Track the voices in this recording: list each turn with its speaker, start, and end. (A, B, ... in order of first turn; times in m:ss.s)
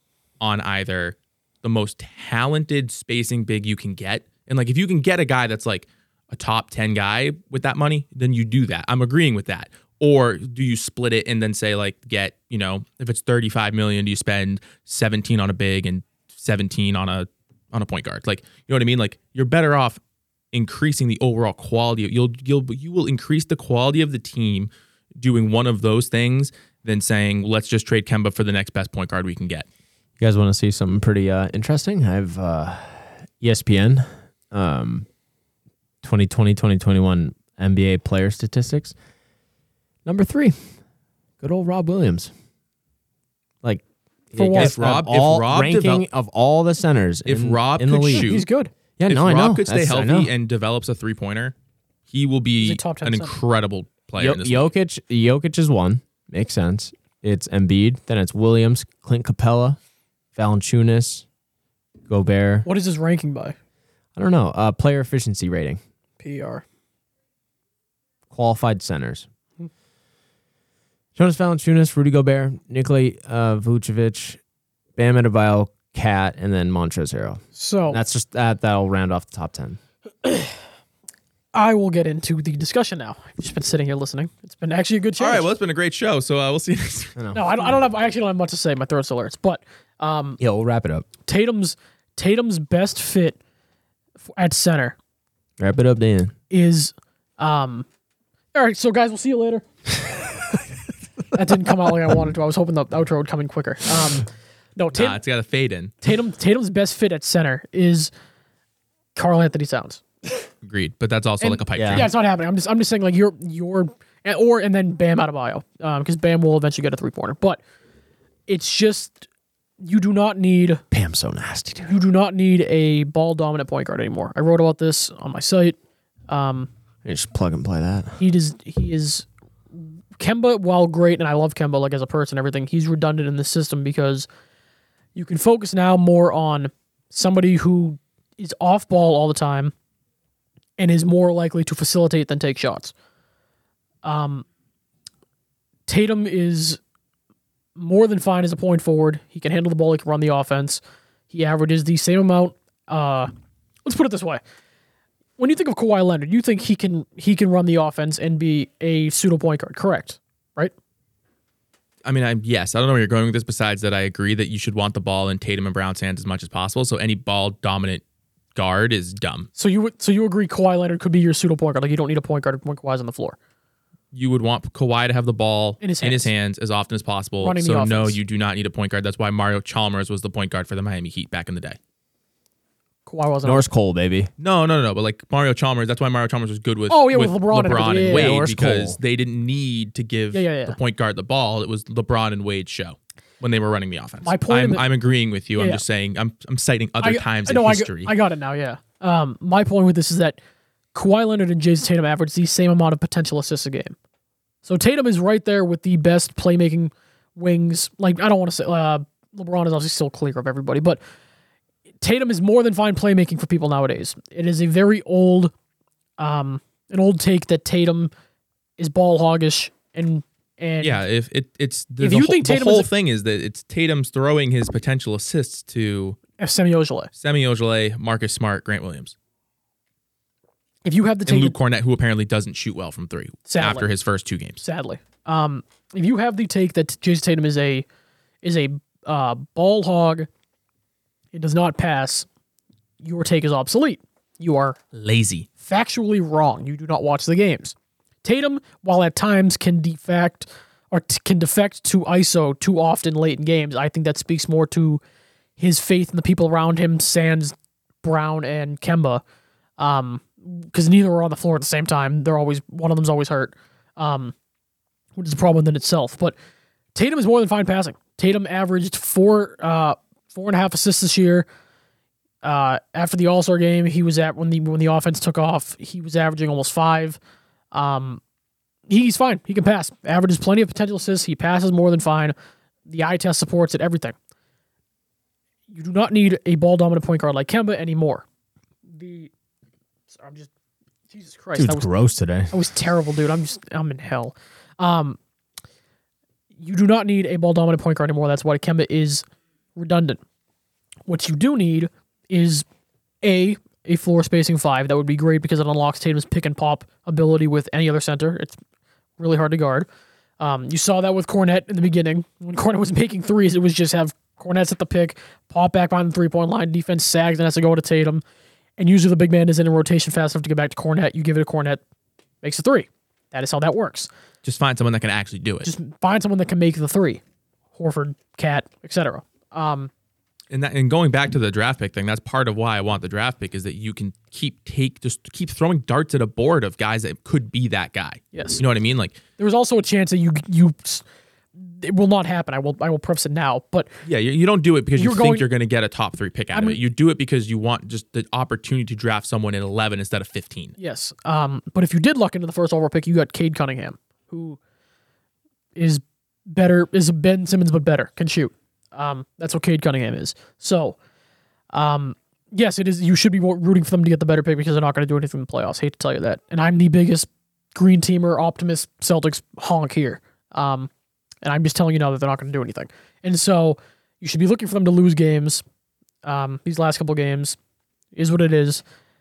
0:00.4-0:20.0 A
0:20.5-0:29.7 A
0:30.2-0:35.0 B
0:36.0-0:38.9 B
0:40.0-0:40.6 B
0:41.4-0:42.3 B
0:43.6-0:48.3 B
0:44.3-0:44.8 C
0:44.5-0:46.0 A
0:47.2-0:48.4 A
0:48.1-0:48.7 C
0:49.0-0:50.3 B
0:49.1-0:51.5 A
0:52.1-0:54.7 A
0:52.6-0:53.3 C
0:54.2-0:59.8 B
1:00.3-1:01.2 B
1:02.1-1:02.6 B
1:02.6-1:03.5 C
1:04.2-1:05.8 B
1:06.2-1:06.6 C
1:08.3-1:09.3 B
1:11.2-1:14.4 B
1:15.0-1:19.8 B
1:17.5-1:18.0 C
1:20.2-1:20.5 C
1:21.5-1:25.5 C
1:25.2-1:27.2 A
1:27.2-1:27.8 B
1:27.3-1:30.4 C
1:30.4-1:31.0 B
1:31.2-1:33.4 C
1:34.3-1:35.0 C
1:35.6-1:36.3 B
1:36.5-1:37.8 C
1:38.5-1:39.6 C
1:41.3-1:45.2 C
1:44.9-1:45.9 A
1:46.0-1:48.1 C
1:49.1-1:50.0 C
1:50.6-1:52.1 A
1:51.4-1:57.6 C
1:51.7-1:52.1 B
1:58.5-1:59.3 C
1:59.8-2:00.8 C
2:00.9-2:01.9 B
2:01.8-2:05.8 C
2:06.3-2:06.7 C
2:07.0-2:08.2 B
2:08.2-2:14.3 C
2:15.1-2:19.7 C
2:20.8-2:22.9 C
2:24.0-2:24.4 C
2:25.9-2:26.8 C
2:27.8-2:33.3 C
2:33.8-2:34.4 C
2:35.4-2:40.7 C
2:42.0-2:48.0 A
2:48.5-2:49.5 A
2:49.6-2:53.4 C
2:54.1-3:01.8 A
2:55.8-2:56.3 C
2:57.4-2:58.2 C
3:03.0-3:03.6 C
3:03.4-3:04.3 B
3:04.4-3:18.1 A
3:06.9-3:08.4 C
3:08.0-3:09.0 B
3:10.3-3:10.8 C
3:14.2-3:14.8 C
3:15.6-3:15.8 C
3:17.0-3:20.4 C
3:20.9-3:23.9 C
3:24.6-3:31.0 C
3:32.0-3:35.5 C
3:36.2-3:38.1 C
3:38.8-3:41.0 C
3:40.8-3:46.2 A
3:42.0-3:42.9 C
3:46.4-3:47.1 C
3:47.2-3:49.1 A
3:50.8-3:51.6 C
3:51.3-3:54.6 A
3:53.5-3:53.9 C
3:54.6-3:57.8 C
3:58.4-4:00.3 C
4:01.3-4:02.3 C
4:03.0-4:04.8 C
4:04.9-4:05.5 A
4:05.6-4:15.0 C
4:15.6-4:19.2 C
4:19.8-4:24.3 C
4:25.2-4:26.4 C
4:26.9-4:31.4 C
4:32.4-4:37.2 C
4:37.7-4:38.2 C
4:38.9-4:42.3 C
4:42.9-4:44.2 C
4:45.7-4:48.2 C
4:48.9-4:49.3 C
4:50.1-4:50.5 C
4:51.1-4:51.9 C
4:51.5-4:52.5 B
4:52.5-4:55.2 C
4:56.6-4:59.2 C
4:59.8-5:00.2 C
5:01.1-5:02.6 C
5:03.2-5:08.6 C
5:09.2-5:09.9 C
5:10.4-5:18.2 C
5:18.8-5:21.8 C
5:22.4-5:24.1 C
5:24.4-5:25.7 A
5:25.6-5:27.2 C
5:27.7-5:29.9 C
5:30.5-5:39.2 A
5:38.3-5:38.6 C
5:39.4-5:41.0 C
5:41.6-5:43.9 C
5:44.0-5:50.7 A
5:45.0-5:45.5 C
5:46.5-5:46.8 C
5:50.8-5:54.6 C
5:55.8-6:01.0 C
6:01.7-6:10.9 C
6:11.4-6:15.6 C
6:16.2-6:17.6 C
6:18.1-6:18.8 C